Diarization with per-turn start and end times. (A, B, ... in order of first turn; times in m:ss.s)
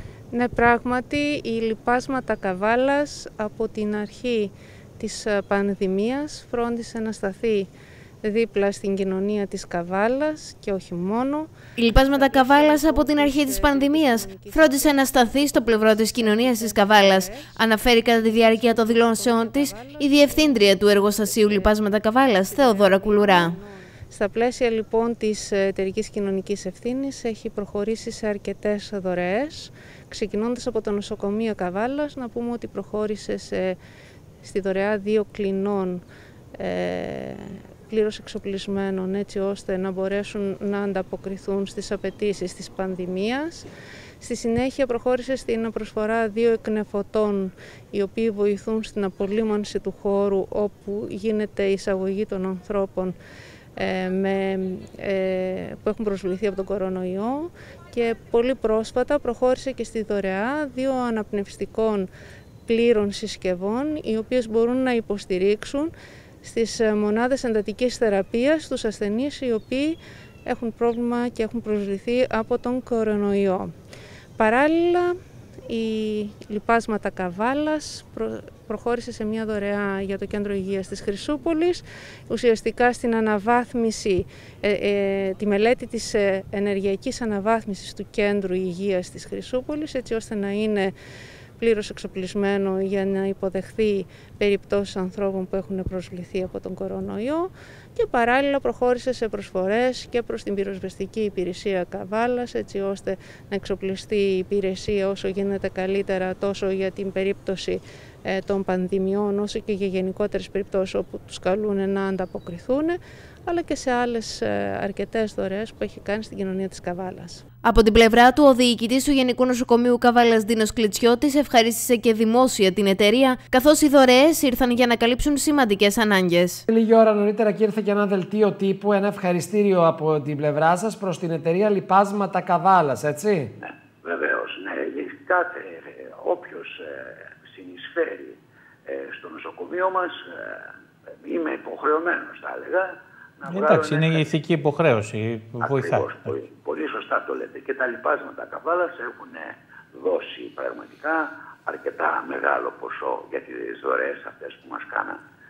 0:00.3-0:07.7 A
0:08.2-0:11.5 A
0:11.8-0:23.5 B
0:12.0-0:21.8 A
0:22.5-0:33.8 A
0:34.4-0:36.0 A
0:36.6-0:43.7 A
0:44.2-0:53.2 A
0:53.8-1:02.1 A
1:02.7-1:05.9 A
1:06.4-1:13.7 A
1:14.4-1:15.1 A
1:15.7-1:30.9 A
1:31.6-1:57.4 A
1:57.6-2:06.6 B
2:06.7-2:13.5 C
2:13.6-2:20.7 D
2:21.2-2:24.3 D
2:23.5-2:26.4 E
2:25.6-2:35.2 D